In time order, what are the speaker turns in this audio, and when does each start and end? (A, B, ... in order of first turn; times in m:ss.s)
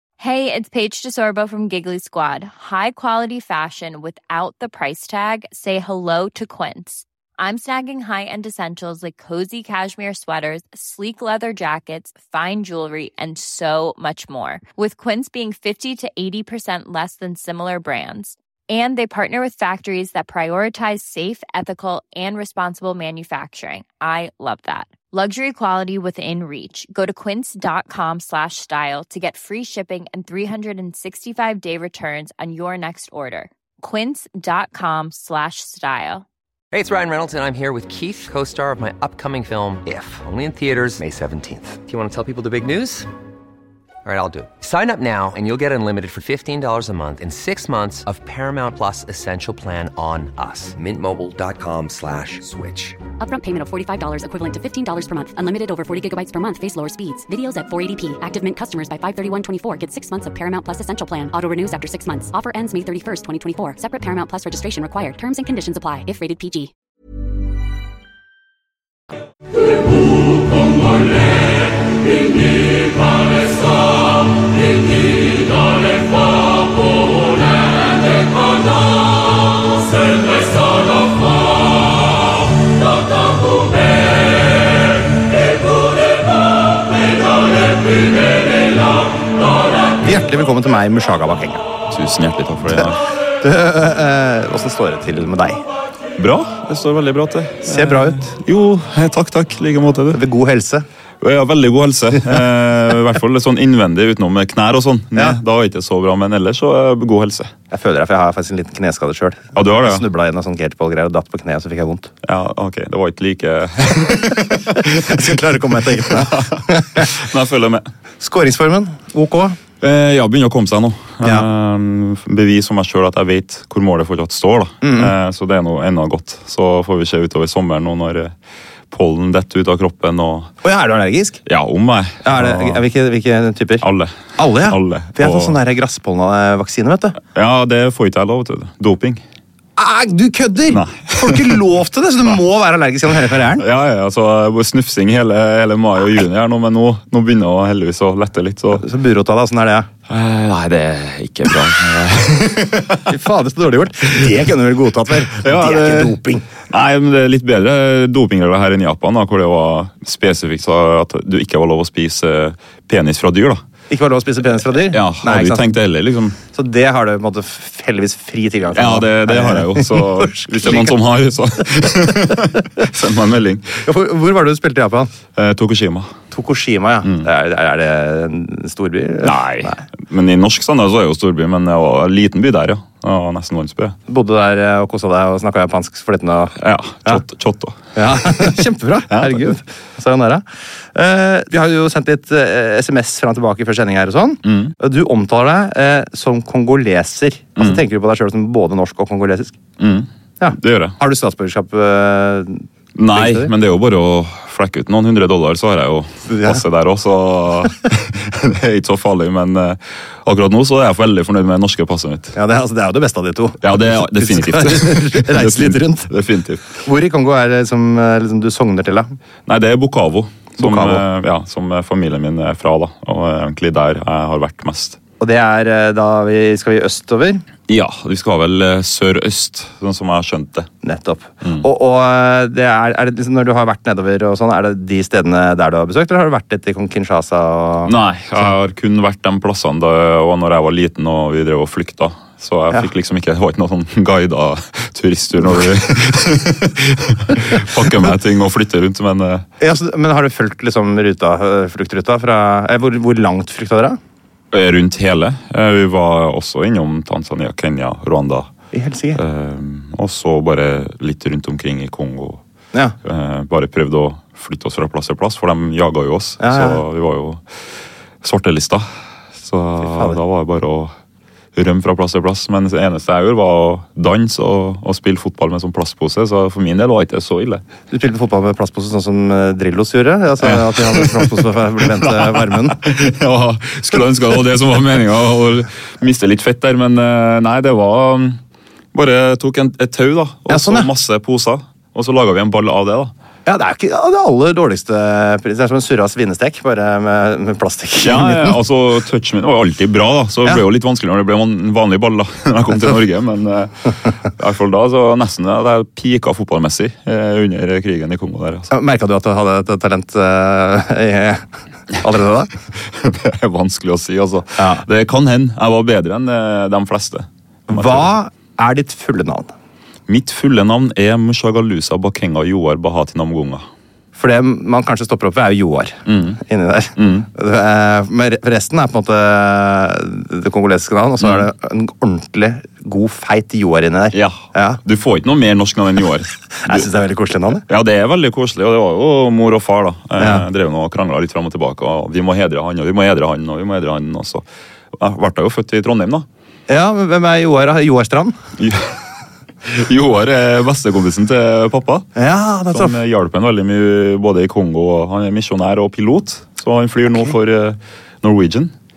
0:00.2-0:36.3 A
0:36.7-0:43.1 B
0:44.0-0:53.0 B
0:53.2-1:06.7 C
1:30.0-1:31.7 D
1:31.9-1:33.0 E
1:33.4-1:35.6 D
1:36.2-1:40.2 E
1:37.6-1:38.4 D
1:40.1-1:40.9 D
1:41.2-1:47.5 E
1:47.7-1:52.1 D
1:49.6-1:50.0 E
1:52.2-1:55.3 E
1:54.8-1:57.1 D
1:55.8-1:57.9 E
1:58.2-1:59.6 D
1:59.8-2:08.3 E
2:04.8-2:05.1 D
2:08.9-2:10.5 E
2:10.6-2:11.4 D
2:11.4-2:12.8 E
2:12.2-2:13.8 D
2:13.8-2:15.6 E
2:14.4-2:17.2 D
2:17.4-2:19.2 E
2:19.8-2:23.7 D
2:20.7-2:21.6 E
2:23.6-2:28.8 E
2:28.8-2:29.9 D
2:30.1-2:33.1 E
2:33.1-2:36.5 D
2:35.3-2:43.6 E
2:43.9-2:45.7 D
2:44.9-2:46.4 E
2:46.5-2:50.9 D
2:48.7-2:53.8 E
2:53.8-2:55.1 D
2:55.4-2:56.1 E
2:56.3-2:59.8 D
2:59.2-3:04.0 E
3:04.1-3:07.2 D
3:06.6-3:08.6 E
3:08.0-3:19.6 D
3:09.1-3:09.6 E
3:14.4-3:14.7 E
3:17.6-3:17.8 E
3:19.8-3:21.0 E
3:20.4-3:23.5 D
3:23.0-3:32.4 E
3:26.3-3:26.6 D
3:32.4-3:36.1 D
3:33.6-3:36.8 E
3:36.8-3:39.2 D
3:39.5-3:45.0 E
3:40.6-3:41.0 D
3:45.2-3:47.4 D
3:47.7-3:50.7 E
3:50.8-3:58.5 D
3:51.4-3:51.7 E
3:57.9-4:09.4 E
4:09.6-4:14.0 D
4:14.5-4:18.5 E
4:18.7-4:19.2 D
4:19.2-4:22.4 E
4:23.0-4:27.5 E
4:26.4-4:26.8 D
4:28.2-4:30.9 E
4:29.8-4:30.2 D
4:31.6-4:37.6 E
4:37.9-4:42.8 D
4:40.4-4:48.4 E
4:48.9-4:53.1 E
4:50.5-4:50.9 D
4:53.5-4:58.5 D
4:58.0-5:08.7 E
5:08.7-5:12.6 D
5:12.8-5:18.1 E
5:14.6-5:14.9 D
5:17.7-5:19.5 D
5:20.1-5:23.7 E
5:24.2-5:34.8 D
5:26.1-5:26.4 E
5:27.0-5:27.3 E
5:31.2-5:31.5 E
5:34.1-5:36.9 E
5:36.6-5:37.7 D
5:37.7-5:46.3 E
5:40.2-5:40.4 D
5:46.7-5:48.4 D
5:48.6-5:49.0 E
5:49.6-5:52.1 E
5:52.2-5:53.0 D
5:52.7-5:58.7 E